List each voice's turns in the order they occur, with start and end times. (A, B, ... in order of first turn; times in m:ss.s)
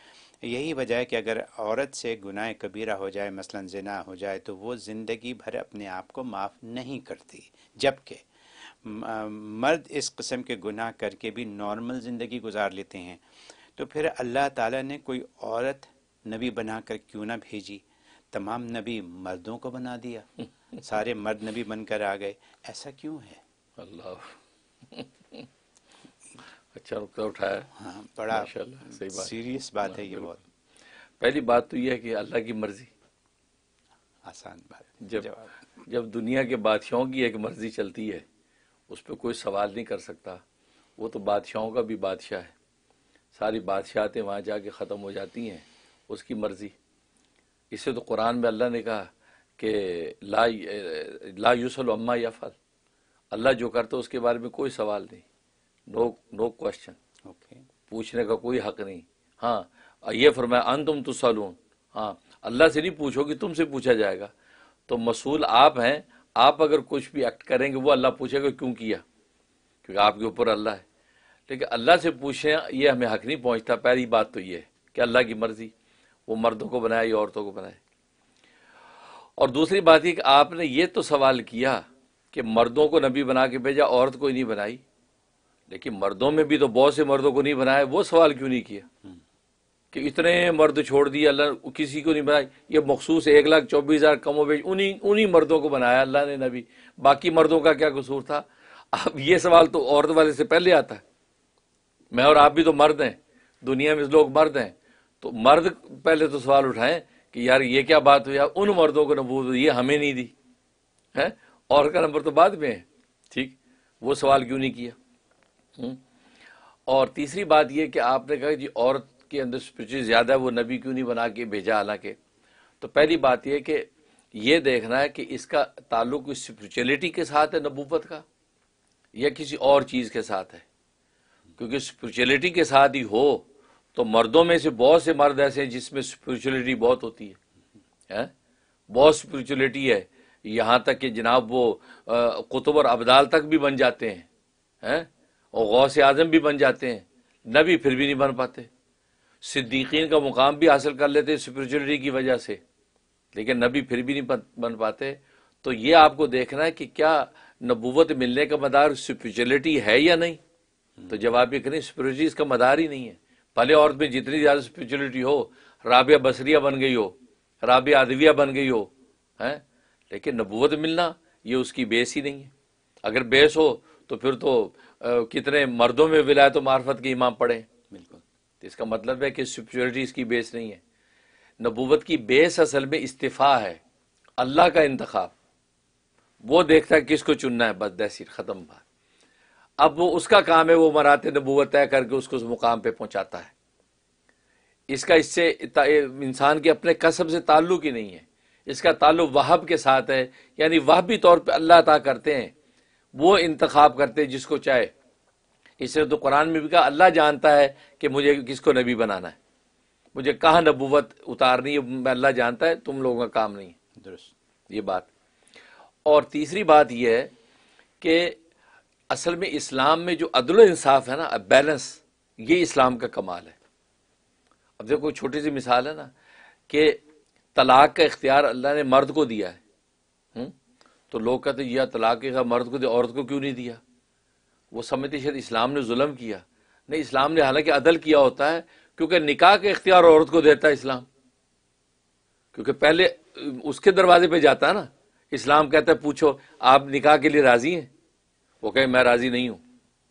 0:00.4-0:08.2 A
0:08.8-0:13.2 A
0:13.8-0:23.4 A
0:23.8-0:24.3 B
0:24.9-0:25.4 B
0:26.7-0:27.7 B
0:27.8-0:30.4 A
0:28.3-0:29.3 B
0:29.8-0:30.3 B
0:31.2-0:32.9 B
0:34.2-0:35.5 A
0:35.0-0:35.3 B
0:35.9-0:38.2 B
0:38.9-0:40.4 B
0:41.0-0:42.5 B
0:43.4-0:46.7 B
0:47.7-0:52.6 B
0:53.3-0:55.2 B
0:55.9-0:57.0 B
0:57.3-0:57.6 A
0:57.9-1:04.3 B
1:04.9-1:09.0 B
1:09.8-1:10.8 B
1:11.5-1:15.7 B
1:16.3-1:17.8 B
1:19.4-1:24.8 B
1:25.7-1:28.9 B
1:29.9-1:41.0 B
1:42.1-1:50.3 B
1:51.2-1:55.0 B
1:56.9-2:02.2 B
2:02.8-2:08.2 B
2:09.1-2:10.6 B
2:11.6-2:17.4 B
2:18.9-2:24.3 B
2:24.8-2:28.7 B
2:29.4-2:32.6 B
2:33.3-2:40.4 B
2:41.1-2:52.5 B
2:53.0-2:57.7 B
2:57.9-2:58.2 A
2:58.6-3:00.8 B
3:01.6-3:03.8 B
3:04.4-3:05.3 B
3:06.4-3:08.8 B
3:09.8-3:13.5 B
3:14.9-3:22.5 B
3:23.1-3:24.9 B
3:25.8-3:29.4 B
3:30.1-3:33.8 B
3:34.0-3:34.3 A
3:34.7-3:35.1 B
3:36.0-3:37.3 B
3:38.0-3:38.4 B
3:39.1-3:43.6 B
3:44.8-3:46.1 B
3:46.7-3:47.0 B
3:47.5-3:49.6 B
3:51.1-3:53.8 B
3:54.7-4:01.1 B
4:02.5-4:07.9 B
4:08.6-4:09.6 B